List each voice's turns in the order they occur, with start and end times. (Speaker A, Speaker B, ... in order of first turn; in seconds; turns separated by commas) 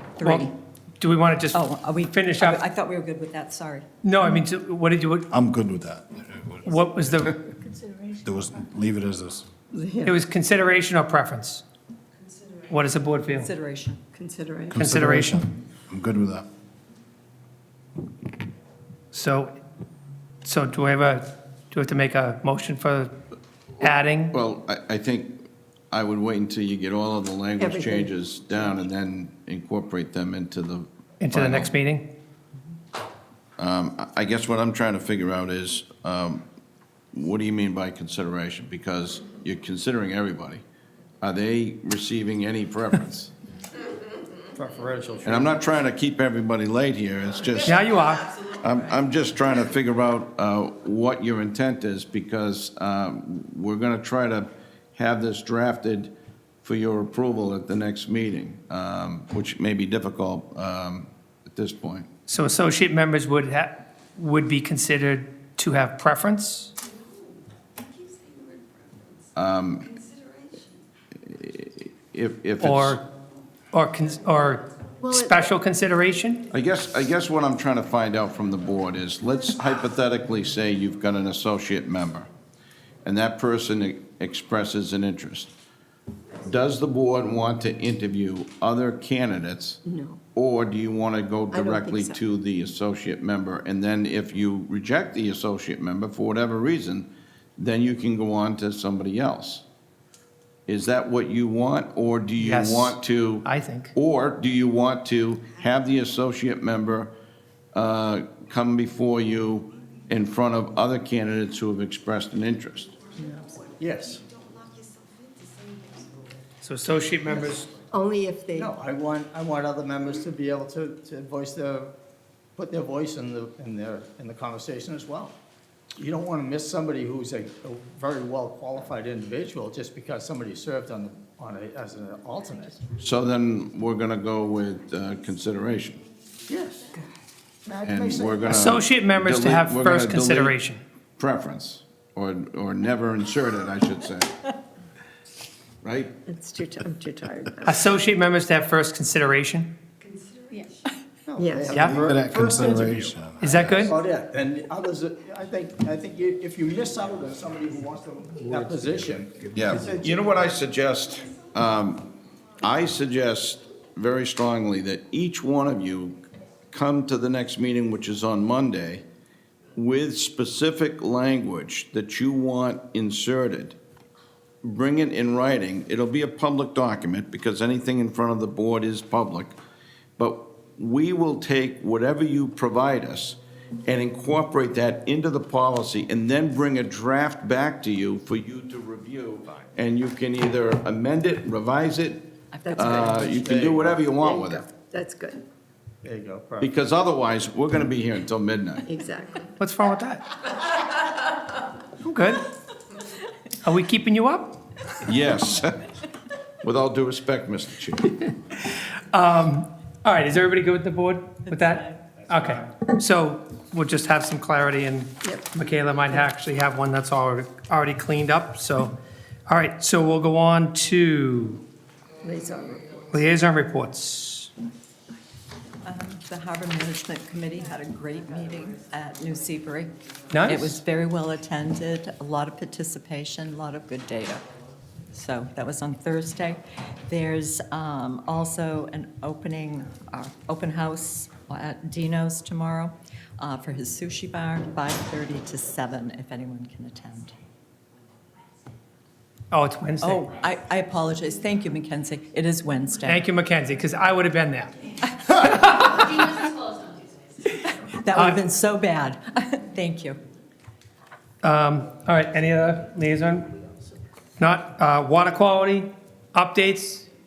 Speaker A: 0.2-0.5, Speaker B: 0.2-2.6, Speaker A: 1.5-3.9, Speaker B: 4.0-5.3, Speaker C: 5.3-6.8, Speaker B: 6.7-7.4, Speaker C: 8.2-9.5, Speaker D: 9.7-10.2, Speaker B: 10.1-11.6, Speaker B: 12.7-13.5, Speaker A: 13.3-14.0, Speaker D: 14.1-14.8, Speaker C: 14.7-16.4, Speaker B: 14.7-15.5, Speaker B: 19.1-19.5, Speaker B: 20.4-23.1, Speaker B: 23.8-24.3, Speaker E: 23.8-31.8, Speaker D: 27.6-28.8, Speaker B: 31.2-32.0, Speaker E: 33.6-36.4, Speaker E: 37.1-40.6, Speaker E: 41.2-43.3, Speaker F: 44.6-45.7, Speaker E: 45.2-47.9, Speaker B: 47.7-48.3, Speaker E: 48.4-62.1, Speaker B: 62.3-66.7, Speaker E: 69.3-70.0, Speaker E: 71.2-73.0, Speaker B: 72.6-73.0, Speaker B: 73.7-76.4, Speaker D: 75.0-75.5, Speaker E: 76.5-82.3, Speaker E: 83.0-85.5, Speaker E: 86.4-89.8, Speaker D: 89.9-90.2, Speaker E: 90.3-99.7, Speaker D: 91.5-92.2, Speaker E: 100.7-107.1, Speaker B: 102.4-103.9, Speaker E: 107.7-113.0, Speaker F: 113.6-114.2, Speaker B: 116.6-117.8, Speaker D: 117.3-118.7, Speaker F: 118.5-121.9, Speaker F: 122.6-125.3, Speaker F: 126.0-132.8, Speaker E: 133.0-136.0, Speaker F: 136.5-136.9, Speaker F: 137.7-138.8, Speaker E: 137.8-140.6, Speaker B: 138.5-140.8, Speaker E: 141.2-144.3, Speaker E: 145.8-146.2, Speaker D: 146.3-147.8, Speaker B: 147.6-149.7, Speaker F: 151.3-153.2, Speaker D: 151.4-152.8, Speaker B: 151.7-152.0, Speaker C: 151.8-153.9, Speaker B: 153.4-153.9, Speaker F: 153.8-160.2, Speaker C: 158.5-160.0, Speaker E: 159.5-162.1, Speaker E: 162.6-169.0, Speaker E: 169.8-173.8, Speaker E: 174.6-179.6, Speaker E: 180.2-194.7, Speaker A: 192.5-193.5, Speaker D: 192.7-193.3, Speaker F: 193.3-194.1, Speaker D: 194.2-195.4, Speaker F: 196.0-196.7, Speaker E: 196.6-198.9, Speaker D: 198.9-199.5, Speaker B: 199.6-200.4, Speaker B: 202.0-202.5, Speaker B: 203.6-204.6, Speaker E: 205.0-205.8, Speaker E: 206.6-208.2, Speaker B: 208.2-218.9, Speaker A: 211.5-212.0, Speaker D: 215.2-215.6, Speaker B: 219.5-221.6, Speaker D: 222.2-223.0, Speaker B: 223.1-224.5, Speaker A: 225.8-234.4, Speaker B: 230.3-230.8, Speaker A: 235.1-247.4, Speaker B: 249.5-250.2, Speaker A: 250.0-253.2, Speaker B: 253.1-256.1, Speaker A: 257.4-260.2, Speaker B: 258.1-258.4, Speaker B: 261.4-263.5, Speaker B: 264.4-267.1